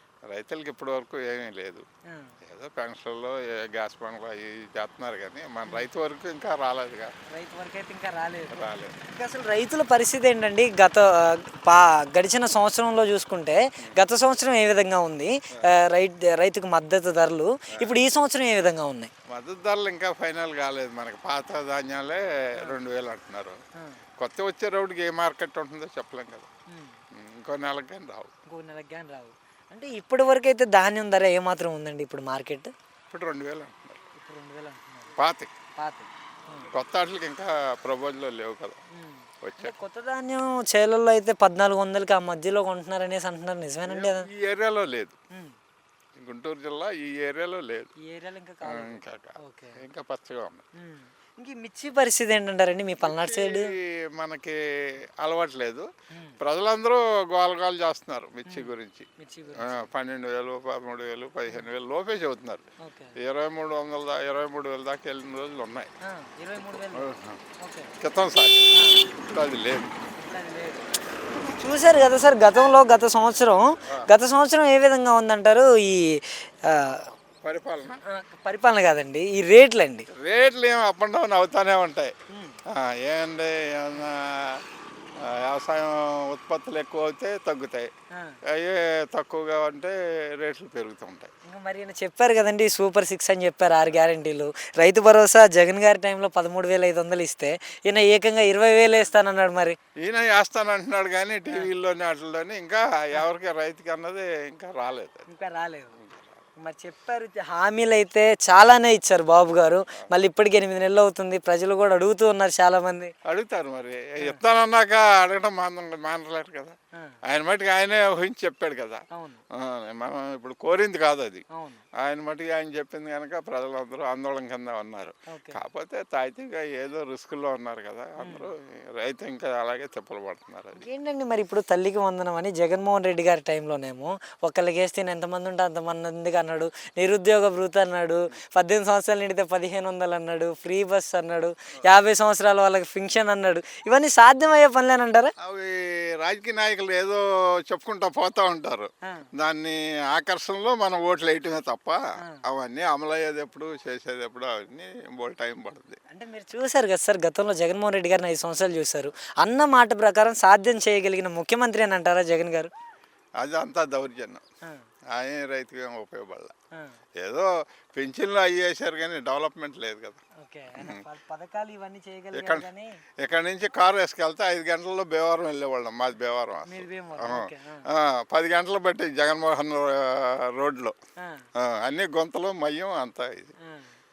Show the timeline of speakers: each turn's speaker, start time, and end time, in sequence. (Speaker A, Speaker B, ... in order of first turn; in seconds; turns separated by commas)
Speaker A: 0.3-1.8, Speaker B: 2.1-2.3, Speaker A: 2.4-7.1, Speaker B: 7.3-19.1, Speaker A: 8.5-8.9, Speaker A: 19.3-23.6, Speaker B: 23.7-24.0, Speaker A: 24.2-26.5, Speaker B: 26.7-27.0, Speaker A: 27.1-28.3, Speaker B: 28.4-32.7, Speaker A: 33.1-34.0, Speaker B: 34.1-35.2, Speaker A: 35.2-35.5, Speaker B: 35.8-36.7, Speaker A: 36.7-38.8, Speaker B: 38.9-44.3, Speaker A: 39.4-39.8, Speaker A: 43.9-45.2, Speaker B: 45.3-45.5, Speaker A: 46.1-47.9, Speaker B: 48.0-49.8, Speaker A: 48.6-50.6, Speaker B: 50.8-53.7, Speaker A: 53.0-65.9, Speaker B: 56.1-56.4, Speaker B: 58.5-59.9, Speaker B: 62.8-63.1, Speaker B: 66.0-67.9, Speaker A: 66.6-67.4, Speaker A: 68.0-70.0, Speaker B: 68.7-69.1, Speaker B: 70.2-70.8, Speaker B: 71.4-77.1, Speaker A: 77.1-78.0, Speaker B: 78.0-80.1, Speaker A: 80.1-82.1, Speaker B: 82.3-82.6, Speaker A: 82.7-84.6, Speaker A: 85.2-87.9, Speaker A: 88.5-91.3, Speaker B: 91.4-99.8, Speaker A: 98.8-99.1, Speaker A: 100.0-105.3, Speaker B: 101.5-101.7, Speaker B: 105.3-106.0, Speaker A: 106.0-106.5, Speaker B: 106.6-113.1, Speaker A: 113.3-121.4, Speaker B: 119.1-119.4, Speaker B: 121.5-121.8, Speaker A: 122.0-130.9, Speaker B: 125.3-125.6, Speaker B: 128.2-128.5, Speaker B: 130.8-145.3, Speaker A: 145.4-156.0, Speaker B: 149.0-149.3, Speaker B: 152.2-152.4, Speaker B: 156.1-162.7, Speaker A: 163.4-164.4, Speaker A: 165.1-166.5, Speaker B: 166.7-167.0, Speaker A: 167.2-170.2, Speaker B: 170.4-173.0, Speaker A: 170.7-171.0, Speaker A: 172.3-180.9, Speaker B: 176.7-177.9, Speaker B: 181.2-181.5, Speaker A: 181.6-183.5, Speaker B: 183.6-183.9